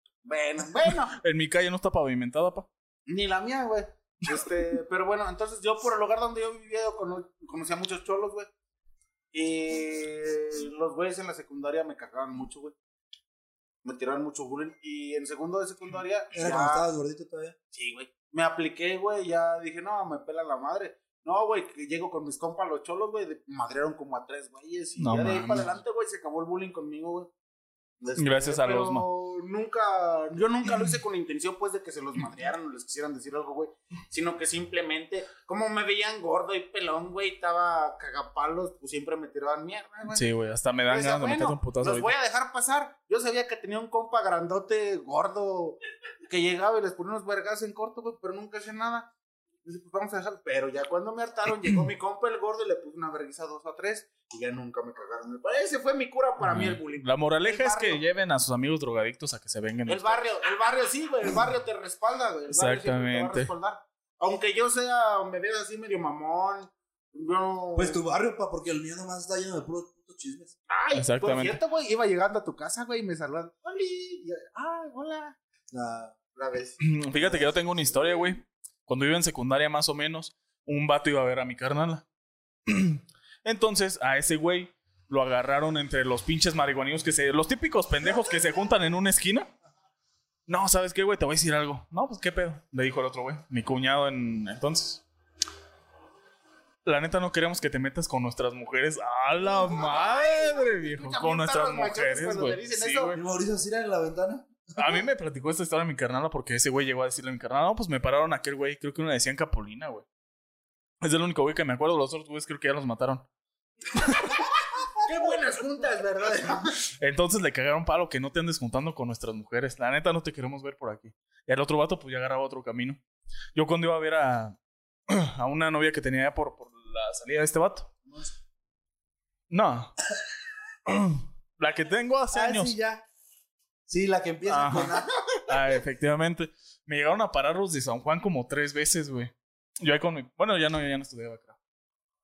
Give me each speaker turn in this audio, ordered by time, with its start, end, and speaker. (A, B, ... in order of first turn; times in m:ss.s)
0:00.2-0:01.2 A
0:01.1-0:02.7 B
0:03.1-0:08.5 A
0:09.3-0:12.7 A
0:13.8-0:16.8 A
0:16.3-0:17.6 C
0:17.7-0:27.3 A
0:25.0-0:25.7 B
0:28.0-0:40.2 A
0:28.2-0:29.0 B
0:40.1-0:42.1 B
0:40.9-0:49.1 A
0:49.6-0:58.0 A
0:56.4-1:00.2 B
0:59.8-1:08.0 A
1:02.5-1:03.5 B
1:07.7-1:10.5 C
1:10.7-1:15.4 A
1:10.9-1:11.6 B
1:15.7-1:16.2 C
1:16.3-1:18.2 A
1:16.8-1:22.0 B
1:22.7-1:29.5 B
1:30.5-1:35.0 B
1:36.8-1:43.2 B
1:39.5-1:43.2 A
1:43.1-1:45.0 C
1:44.8-1:50.0 B
1:51.0-1:53.2 B
1:53.9-1:54.3 B
1:55.0-1:56.8 A
1:57.0-2:03.0 B
2:03.5-2:04.6 B
2:05.1-2:07.9 B
2:08.0-2:08.3 A
2:09.5-2:10.0 B
2:10.8-2:12.7 B
2:12.3-2:13.0 C
2:13.9-2:15.1 C
2:14.4-2:21.6 B